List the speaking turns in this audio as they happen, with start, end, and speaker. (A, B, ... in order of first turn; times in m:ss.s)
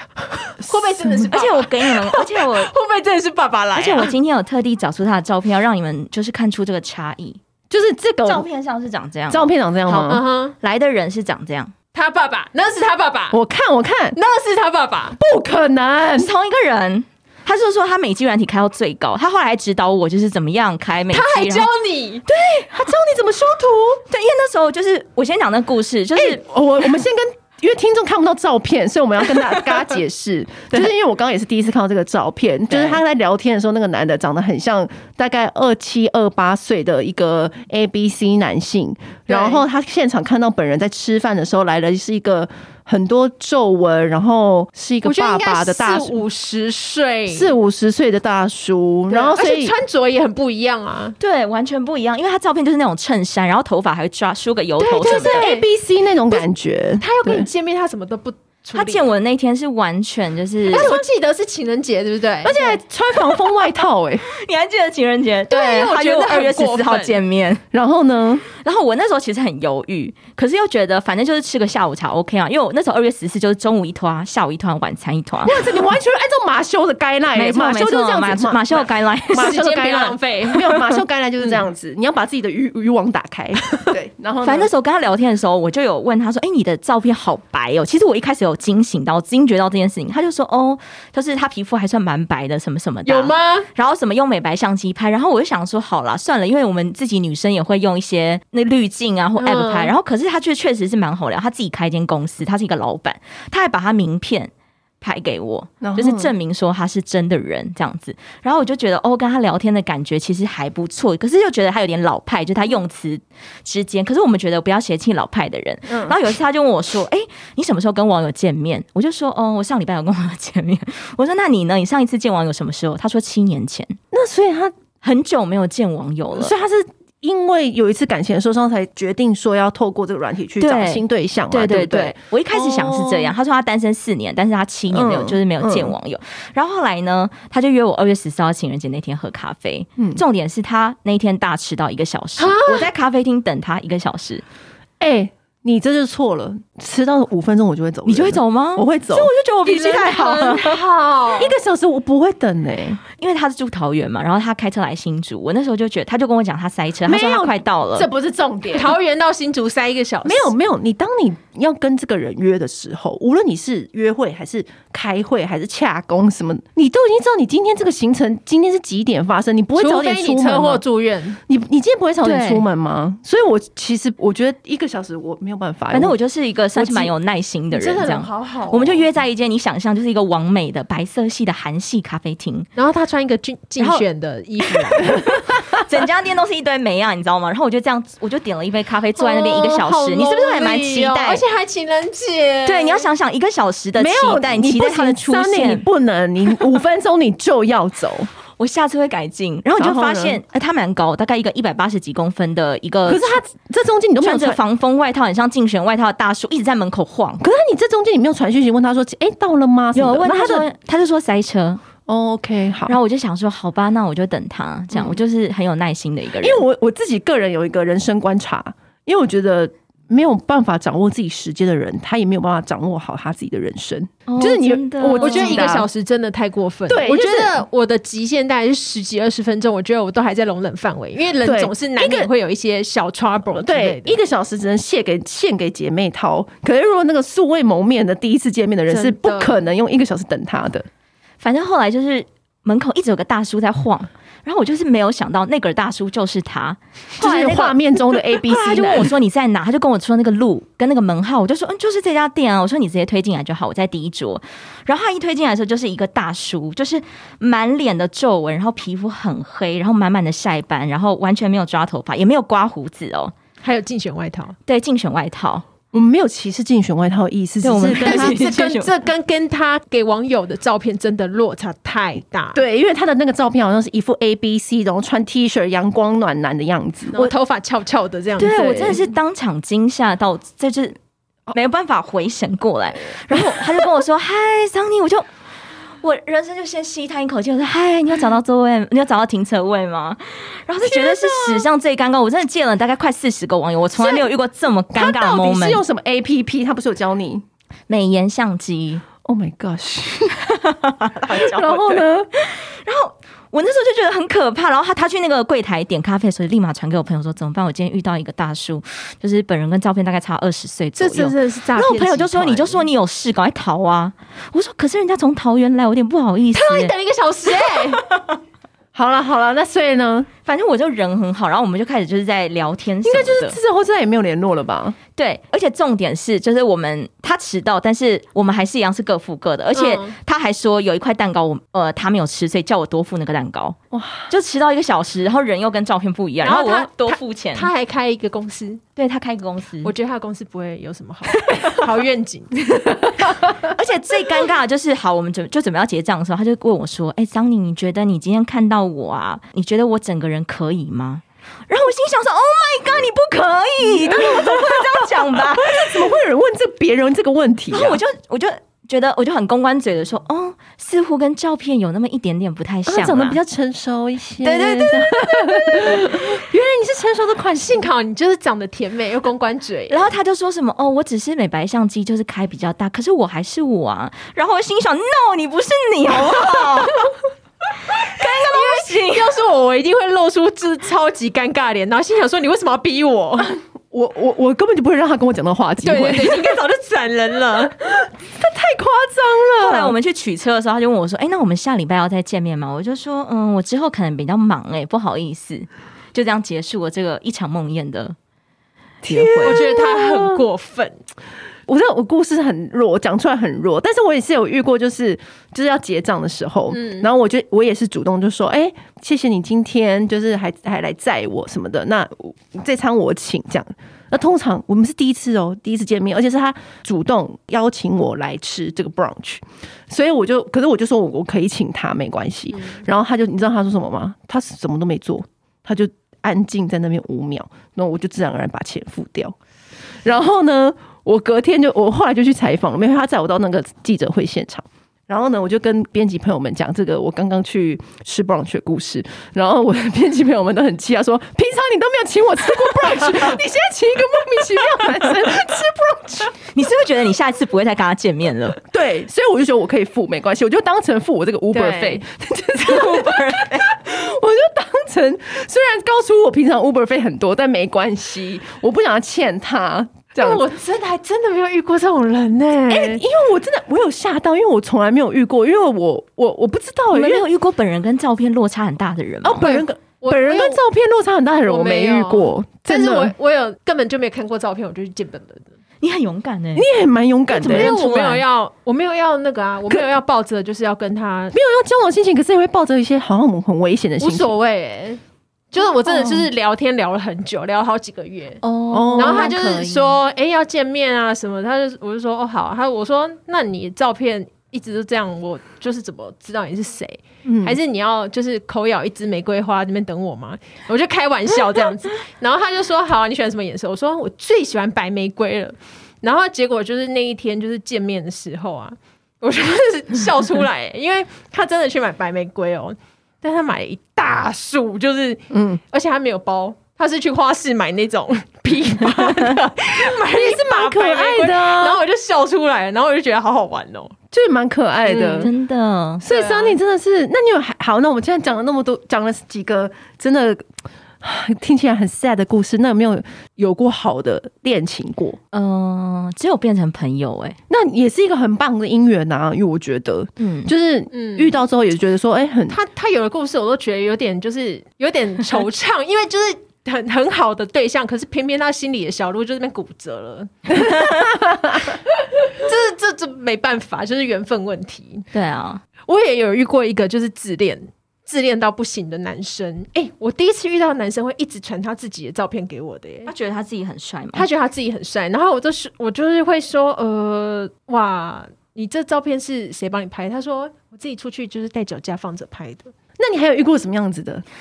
0:00.4-0:04.1 A
0:01.3-0:02.7 B
0:03.7-0:07.4 B
0:07.7-0:08.4 C
0:08.2-0:11.7 B
0:09.3-0:10.2 C
0:10.0-0:10.5 A
0:11.9-0:13.4 A
0:13.3-0:14.2 C
0:14.1-0:15.2 A
0:15.2-0:16.3 C
0:16.2-0:21.7 B
0:21.1-0:22.2 A
0:22.3-0:22.9 B
0:22.7-0:24.0 C
0:24.1-0:26.4 B
0:26.2-0:46.2 C
0:39.3-0:39.6 A
0:45.0-0:47.5 A
0:47.3-0:49.7 C
0:49.1-0:51.2 A
0:51.2-0:55.5 B
0:54.8-0:55.7 A
0:55.0-0:57.5 C
0:57.0-0:59.1 A
0:58.7-1:00.9 B
1:00.7-1:02.8 A
1:00.7-1:01.0 C
1:02.4-1:04.2 C
1:04.3-1:07.6 B
1:05.5-1:07.2 A
1:07.7-1:08.4 C
1:08.6-1:15.6 B
1:15.4-1:24.7 C
1:17.3-1:19.6 B
1:19.3-1:21.0 A
1:24.4-2:04.0 B
1:33.0-1:33.7 A
1:39.4-1:39.9 A
1:45.8-1:46.3 C
1:55.9-1:56.2 C
2:04.1-2:04.7 C
2:05.0-2:06.5 B
2:06.3-2:13.3 C
2:10.6-2:24.4 B
2:14.9-2:15.9 C
2:22.4-2:22.9 A
2:25.0-2:29.3 C
2:28.0-2:30.8 B
2:29.6-2:31.5 A
2:31.4-2:33.0 C
2:33.2-2:38.1 B
2:37.0-2:39.0 C
2:38.7-2:40.5 A
2:40.2-2:50.8 C
2:49.8-2:51.4 A
2:51.5-2:56.1 C
2:52.2-2:52.6 B
2:55.9-3:02.7 B
2:56.8-2:57.1 C
2:57.7-2:59.0 A
3:02.8-3:05.3 A
3:03.8-3:04.0 B
3:04.9-3:11.4 B
3:09.2-3:13.1 A
3:12.6-3:15.8 B
3:14.0-3:18.3 C
3:18.6-3:23.4 B
3:19.8-3:20.4 C
3:23.0-3:24.6 C
3:24.2-3:27.4 B
3:27.4-3:30.7 C
3:29.9-3:31.8 B
3:32.1-3:33.0 C
3:32.9-3:36.6 B
3:34.9-3:35.2 C
3:36.4-3:45.9 C
3:44.3-3:45.7 B
3:45.1-3:54.2 A
3:46.9-3:47.6 C
3:51.4-3:52.3 C
3:53.5-4:00.8 C
3:58.9-3:59.5 A
4:01.4-4:23.3 B
4:07.2-4:09.1 C
4:23.6-4:24.6 A
4:24.6-4:25.6 B
4:25.9-4:28.4 C
4:27.6-4:28.9 B
4:27.9-4:32.6 A
4:32.5-4:37.2 C
4:37.1-4:39.0 A
4:38.4-4:41.0 B
4:41.5-4:45.3 B
4:43.3-4:43.8 C
4:46.0-4:55.8 B
4:50.8-4:51.7 C
4:54.0-4:54.3 C
4:54.9-4:57.4 C
4:57.9-4:59.0 B
4:59.2-5:00.4 C
5:00.5-5:16.9 B
5:01.3-5:02.3 C
5:11.0-5:12.8 A
5:16.5-5:18.0 A
5:18.0-5:18.4 B
5:18.9-5:20.3 C
5:20.4-5:23.6 B
5:23.0-5:25.0 C
5:25.2-5:33.8 B
5:29.7-5:30.2 A
5:33.9-5:34.3 C
5:34.3-5:37.7 B
5:36.4-5:38.8 A
5:39.0-5:39.9 B
5:39.8-5:43.2 A
5:43.6-5:55.9 B
5:53.8-5:58.0 C
5:57.7-6:03.4 B
6:02.9-6:07.9 C
6:04.4-6:06.1 B
6:07.6-6:10.1 A
6:09.9-6:17.1 B
6:17.9-6:19.3 B
6:18.2-6:23.6 A
6:23.9-6:26.6 C
6:25.8-6:27.8 A
6:28.2-6:30.0 C
6:29.6-6:38.2 B
6:39.0-6:40.4 C
6:39.0-6:39.6 B
6:39.4-6:41.0 A
6:41.7-7:09.4 C
6:46.7-6:47.0 A
7:10.0-7:26.3 C
7:26.5-7:28.6 B
7:28.7-7:40.4 C
7:31.5-7:32.0 A
7:32.6-7:33.7 B
7:40.2-7:43.0 A
7:42.7-7:47.2 C
7:46.9-7:49.5 B
7:49.2-7:53.1 C
7:49.4-7:50.6 A
7:51.5-7:55.5 A
7:55.8-7:56.6 B
7:56.5-7:57.7 C
7:57.3-8:01.4 A
7:57.3-7:58.2 B
8:01.3-8:04.3 C
8:04.0-8:05.0 A
8:05.5-8:08.4 A
8:05.9-8:06.3 C
8:08.4-8:10.0 B
8:08.7-8:09.4 C
8:08.9-8:44.0 A
8:17.2-8:17.6 C
8:35.3-8:35.6 C
8:40.1-8:41.8 C
8:44.1-8:45.3 C
8:44.8-8:45.3 A
8:45.1-8:46.0 B
8:46.0-8:50.4 C
8:46.0-8:46.6 A
8:51.0-8:55.2 C
8:55.3-8:57.4 B
8:57.5-9:02.6 C
9:00.2-9:00.5 B
9:00.9-9:01.4 A
9:02.5-9:10.9 A
9:10.9-9:11.5 C
9:11.9-9:15.1 A
9:15.1-9:15.6 B
9:15.8-9:23.1 A
9:23.0-9:24.3 B
9:24.1-9:32.7 A
9:33.0-9:34.2 C